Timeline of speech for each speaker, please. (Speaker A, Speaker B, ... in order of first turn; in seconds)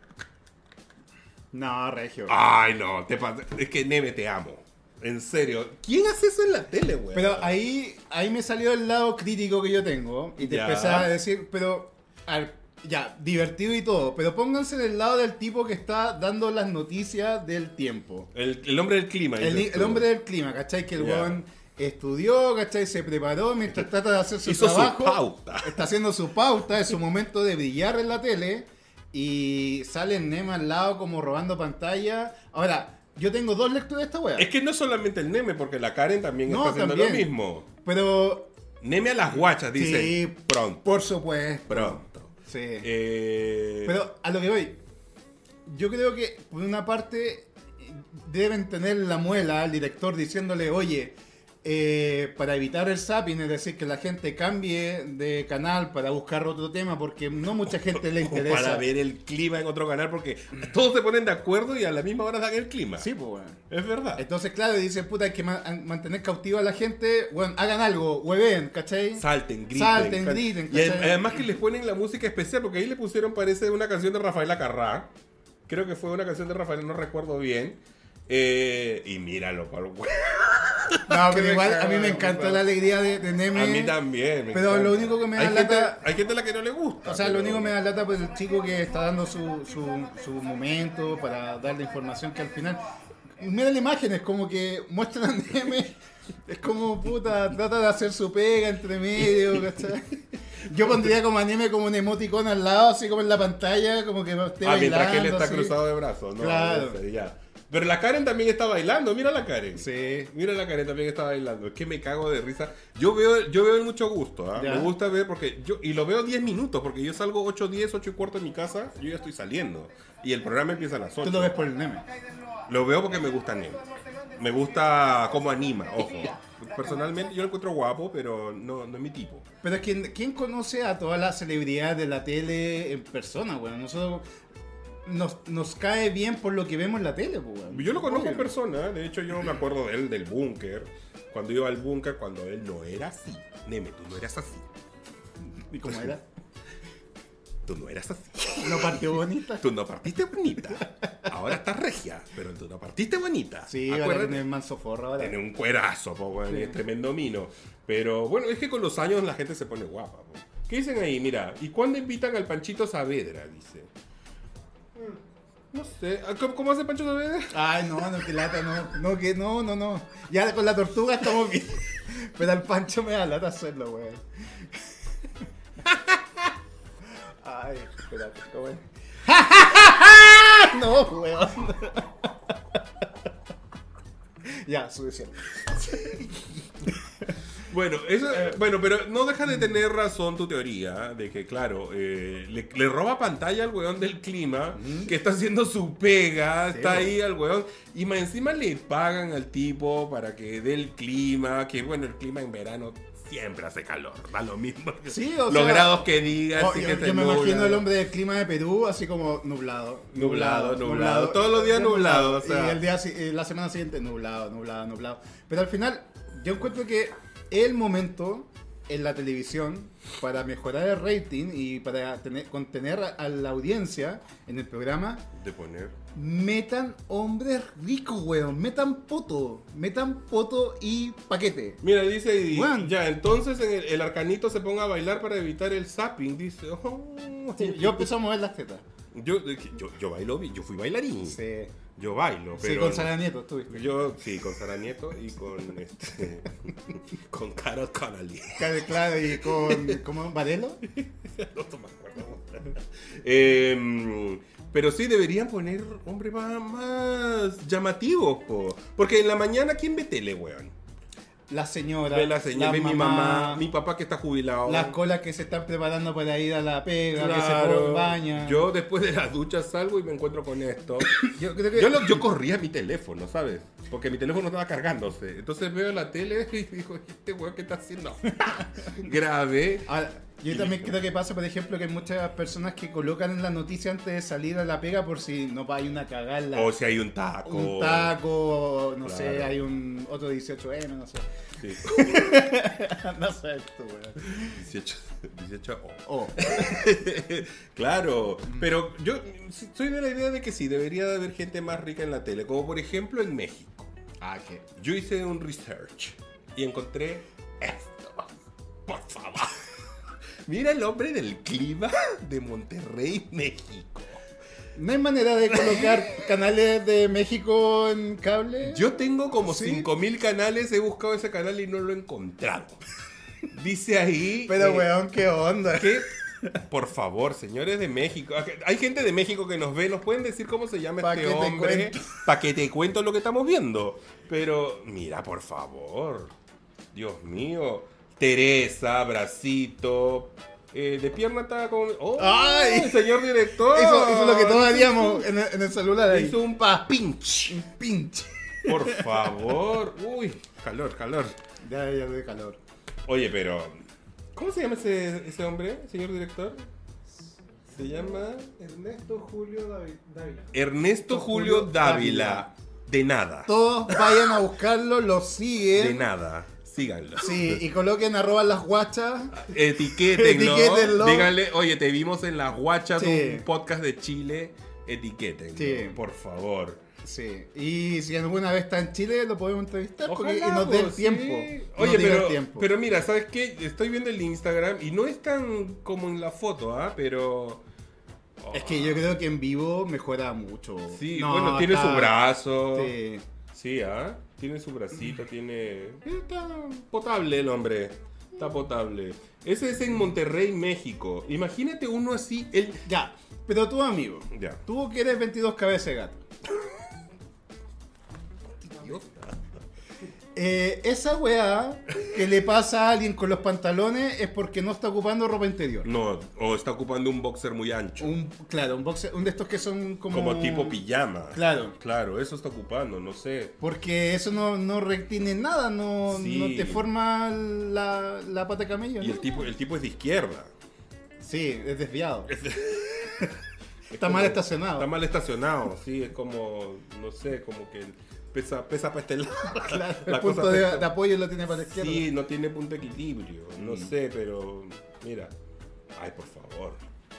Speaker A: 1.5-2.4, 7.1-18.3, 19.4-34.5, 36.5-38.5, 39.7-42.9, 43.8-44.8, 45.7-58.9, 63.0-63.6, 64.2-71.5, 81.1-84.0, 84.5-86.0, 87.0-92.8, 93.4-96.0, 96.5-105.8, 106.4-107.0, 109.8-110.3, 114.6-114.9, 121.2-122.0, 129.6-134.2, 135.1-138.5, 145.7-146.2, 148.6-149.6, 153.7-155.4, 156.5-156.8, 167.5-174.9, 177.4-182.1, 184.4-187.4, 194.8-195.1, 196.7-197.1, 205.1-225.2, 226.1-231.8, 232.5-232.9, 237.6-238.8, 241.3-241.7, 242.6-244.0, 248.6-250.8, 261.5-263.7, 264.6-268.7, 271.2-272.2, 279.9-286.7, 287.4-294.6, 296.1-296.8, 304.2-304.6, 314.8-319.9, 324.5-326.1, 331.0-332.2, 342.2-343.1, 343.6-346.4, 347.5-349.5, 351.6-352.6, 361.1-362.5, 363.5-366.0, 367.2-371.4, 372.9-373.5, 375.6-376.0, 377.0-382.7, 388.5-393.2, 402.9-406.2, 410.4-415.9, 418.0-420.8, 421.3-421.8, 423.6-429.2, 431.2-432.4, 433.9-434.9, 439.5-442.1, 443.6-443.9
Speaker B: 2.3-7.6, 10.4-11.1, 18.3-20.1, 21.0-21.4, 24.4-25.8, 34.4-37.7, 38.8-41.1, 41.7-44.0, 57.9-63.1, 63.7-64.2, 69.2-75.1, 75.7-82.7, 83.5-87.8, 99.3-99.6, 104.6-121.7, 122.7-129.5, 137.7-144.7, 145.9-146.1, 147.7-154.4, 155.2-163.9, 165.7-167.6, 187.7-207.9, 210.1-212.8, 225.3-225.9, 231.8-238.1, 239.1-241.4, 242.0-243.2, 243.7-250.0, 250.8-260.8, 262.1-265.0, 267.1-279.9, 280.5-280.9, 286.5-288.2, 289.0-289.6, 291.6-292.5, 294.4-303.9, 304.8-308.3, 308.9-309.6, 310.5-314.2, 315.5-316.3, 318.6-322.8, 323.5-324.9, 325.8-326.1, 326.7-336.3, 336.9-345.3, 346.1-347.6, 348.7-351.4, 353.1-353.8, 354.4-356.6, 357.7-358.5, 360.5-364.4, 365.7-367.6, 369.3-376.8, 380.1-387.6, 388.4-389.1, 390.9-392.9, 393.5-402.8, 404.3-404.6, 408.6-409.4, 415.8-418.1, 420.1-423.6, 426.1-426.9, 429.0-430.5, 432.3-433.4, 433.9-440.9, 441.6-445.3, 445.9-446.8
Speaker C: 357.6-360.6